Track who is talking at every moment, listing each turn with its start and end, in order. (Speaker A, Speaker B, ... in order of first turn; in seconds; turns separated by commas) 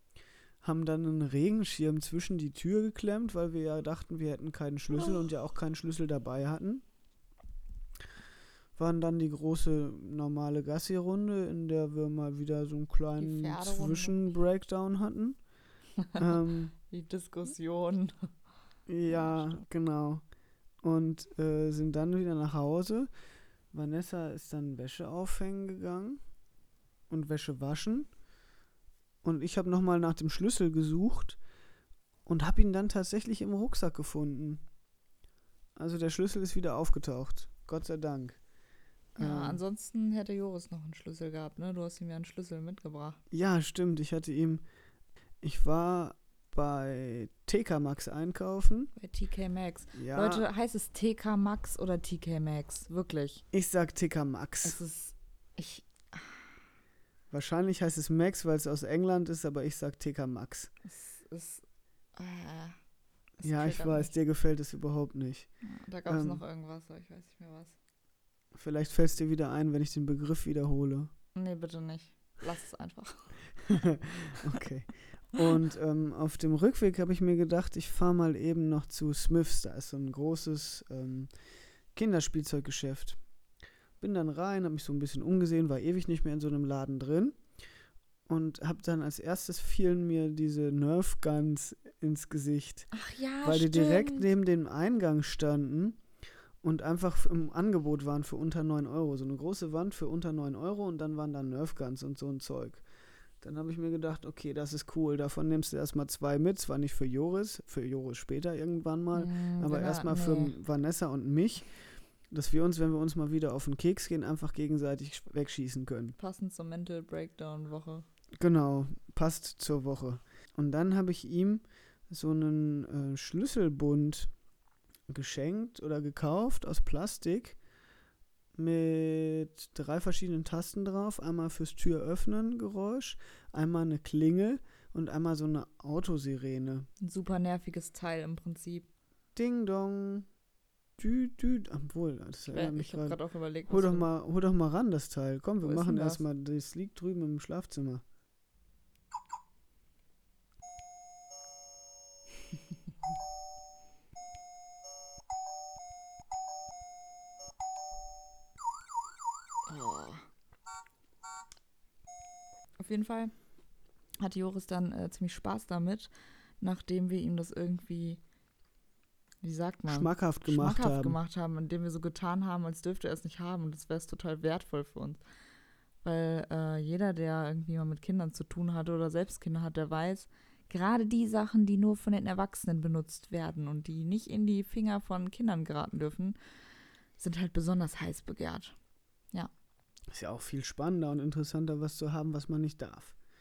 Speaker A: 0.6-6.8, Speaker A: 8.8-15.4, Speaker B: 13.2-14.2, Speaker B: 16.0-18.3, Speaker A: 16.1-16.7, Speaker A: 18.9-20.2, Speaker B: 19.1-19.6, Speaker A: 20.8-23.1, Speaker A: 23.7-26.2, Speaker A: 27.1-28.1, Speaker A: 29.2-31.4, Speaker A: 32.2-34.6, Speaker A: 35.8-38.4, Speaker A: 39.1-39.6, Speaker B: 39.2-43.2, Speaker A: 43.3-44.6, Speaker A: 45.4-48.9, Speaker B: 49.0-53.4, Speaker A: 49.9-50.5, Speaker A: 53.5-54.8, Speaker B: 54.6-56.6, Speaker A: 57.3-60.7, Speaker B: 60.8-61.6, Speaker B: 62.1-62.8, Speaker B: 63.4-64.1, Speaker A: 63.4-65.5, Speaker B: 65.6-67.8, Speaker A: 66.1-66.4, Speaker A: 68.5-71.1, Speaker B: 71.3-74.4, Speaker A: 73.7-81.3, Speaker A: 81.9-83.2, Speaker A: 84.0-87.4, Speaker A: 88.3-92.9, Speaker B: 92.9-94.3, Speaker A: 93.4-96.0, Speaker A: 96.6-102.8, Speaker A: 103.4-111.7, Speaker B: 109.1-110.5, Speaker A: 112.3-116.2, Speaker B: 116.2-118.1, Speaker A: 118.4-124.3, Speaker A: 125.1-127.6, Speaker A: 128.6-136.9, Speaker B: 137.0-138.9, Speaker A: 139.3-140.2, Speaker A: 141.0-143.2, Speaker B: 142.5-144.1, Speaker A: 143.7-148.0, Speaker B: 145.6-146.2, Speaker B: 159.7-160.3, Speaker B: 162.8-163.3, Speaker B: 164.2-168.2, Speaker B: 169.4-175.2, Speaker A: 169.9-171.2, Speaker B: 176.0-186.3, Speaker B: 187.2-188.7, Speaker A: 190.1-193.1